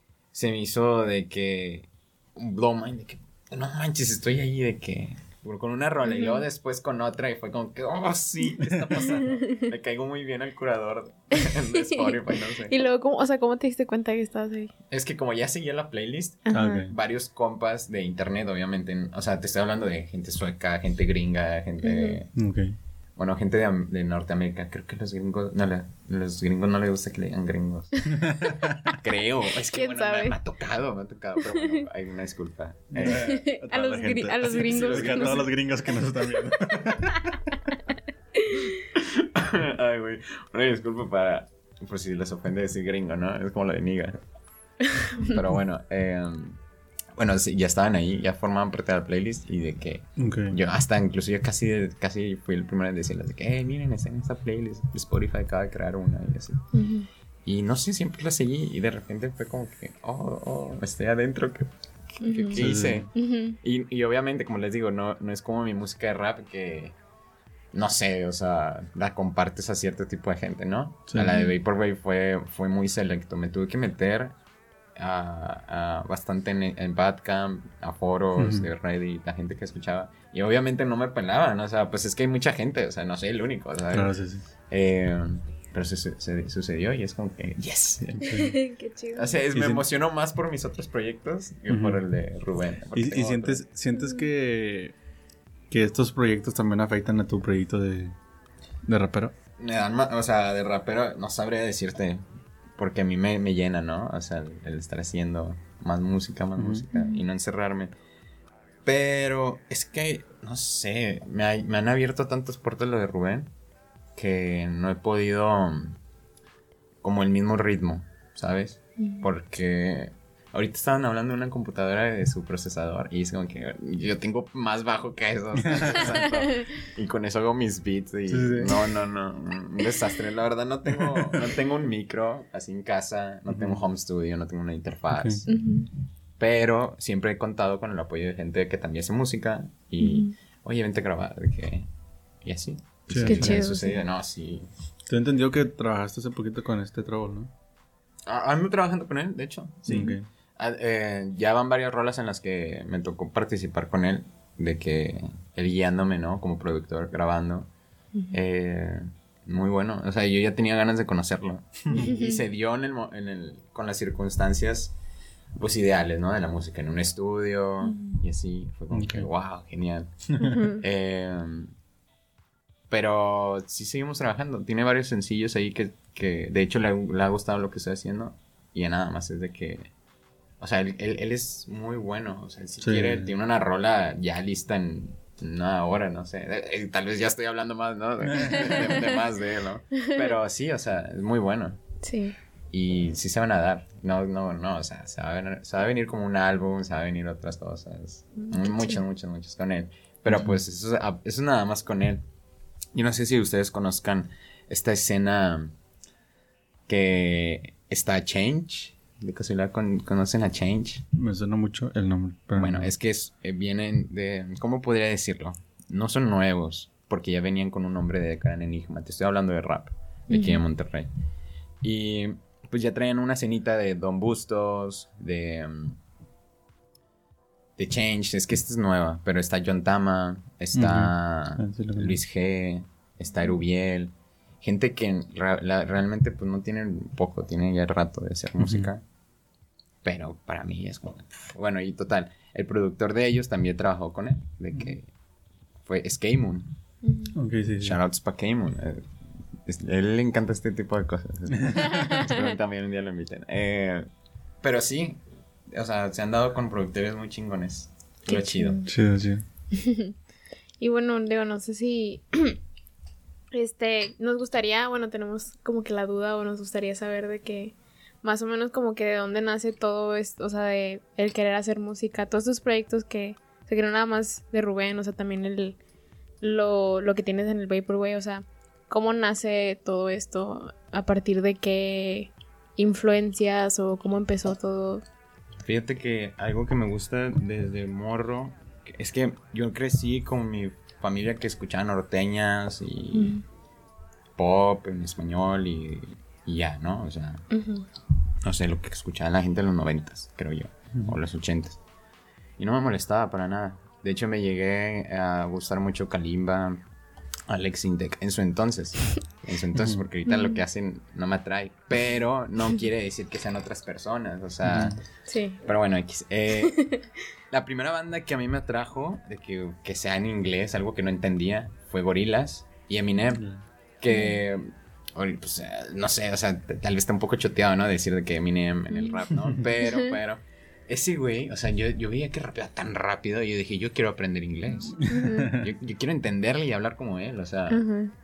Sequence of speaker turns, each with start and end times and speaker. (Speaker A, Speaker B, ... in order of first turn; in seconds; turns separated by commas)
Speaker A: 0.3-12.8, Speaker B: 6.0-6.4, Speaker B: 9.3-9.7, Speaker B: 11.4-14.7, Speaker A: 14.9-22.3, Speaker B: 16.4-16.9, Speaker C: 16.5-16.9, Speaker B: 21.8-22.2, Speaker C: 22.3-22.8, Speaker A: 23.1-28.1, Speaker C: 28.1-29.0, Speaker A: 28.9-33.4, Speaker B: 29.6-30.4, Speaker B: 31.4-31.9, Speaker C: 32.9-37.5, Speaker B: 33.0-35.6, Speaker A: 34.6-35.5, Speaker B: 38.3-38.8, Speaker A: 38.9-44.2, Speaker B: 44.9-45.4, Speaker A: 45.2-46.6, Speaker A: 47.1-56.6, Speaker C: 50.2-50.6, Speaker B: 56.7-57.1, Speaker A: 57.4-63.1, Speaker B: 62.2-62.6, Speaker C: 62.5-63.1, Speaker B: 63.1-63.6, Speaker A: 63.6-67.0, Speaker A: 67.7-74.3, Speaker C: 71.1-71.4, Speaker A: 75.0-84.1, Speaker C: 78.4-78.7, Speaker C: 83.9-84.5, Speaker A: 84.7-88.2, Speaker C: 88.0-88.5, Speaker B: 88.3-89.3, Speaker A: 89.1-93.6, Speaker C: 89.5-89.8, Speaker C: 91.7-92.0, Speaker C: 92.9-94.9, Speaker B: 93.9-94.3, Speaker C: 95.7-98.1, Speaker C: 98.8-99.3, Speaker A: 99.6-102.2, Speaker A: 102.8-107.9, Speaker C: 106.6-106.8, Speaker B: 106.9-107.2, Speaker A: 108.8-113.5, Speaker A: 114.1-116.0, Speaker A: 117.0-135.5, Speaker B: 119.0-119.2, Speaker C: 125.6-126.2, Speaker B: 126.3-126.6, Speaker C: 128.3-128.8, Speaker C: 130.9-131.5, Speaker C: 133.5-133.8, Speaker C: 135.1-135.4, Speaker B: 135.5-135.9, Speaker A: 136.4-141.9, Speaker B: 140.0-140.3, Speaker A: 142.4-144.7, Speaker C: 143.1-143.6, Speaker B: 143.2-144.0, Speaker C: 145.1-147.5, Speaker A: 148.3-157.7, Speaker C: 149.9-150.3, Speaker A: 158.3-164.9, Speaker B: 161.9-162.4, Speaker A: 165.6-171.7, Speaker B: 167.8-168.2, Speaker C: 168.9-169.3, Speaker B: 170.4-170.8, Speaker A: 172.9-179.9, Speaker A: 180.6-191.8, Speaker C: 182.8-183.3, Speaker C: 188.2-189.0, Speaker B: 188.6-189.1, Speaker B: 189.9-190.3, Speaker B: 192.0-192.3, Speaker A: 192.7-202.2, Speaker B: 198.4-199.0, Speaker A: 202.9-205.7, Speaker A: 206.9-211.0, Speaker C: 211.1-212.9, Speaker A: 212.6-221.1, Speaker B: 220.3-220.6, Speaker A: 221.8-226.0, Speaker A: 227.8-239.0, Speaker C: 230.7-232.2, Speaker C: 238.6-238.9, Speaker A: 240.0-245.1, Speaker A: 245.8-246.8, Speaker B: 247.0-247.3, Speaker C: 247.3-248.0, Speaker A: 247.8-249.1, Speaker A: 249.6-254.0, Speaker C: 251.6-252.0, Speaker B: 251.8-252.5, Speaker A: 254.6-258.8, Speaker B: 258.3-258.9, Speaker C: 258.9-259.4, Speaker B: 259.7-260.1, Speaker B: 260.8-262.6, Speaker B: 263.5-275.8, Speaker B: 276.4-285.0, Speaker A: 285.6-293.4, Speaker B: 293.1-293.4, Speaker A: 294.4-297.5, Speaker B: 297.5-297.9, Speaker A: 298.4-301.8, Speaker A: 302.6-306.8, Speaker A: 307.5-315.0, Speaker C: 309.8-310.0, Speaker C: 314.6-315.0, Speaker B: 315.3-315.6, Speaker A: 315.6-316.8, Speaker B: 316.6-317.1, Speaker A: 317.5-323.5, Speaker C: 323.3-323.6, Speaker A: 324.0-337.8, Speaker B: 324.1-324.4, Speaker B: 328.9-329.2, Speaker C: 329.3-329.6, Speaker B: 329.8-330.1, Speaker C: 335.0-335.6, Speaker B: 335.0-335.6, Speaker B: 337.7-338.1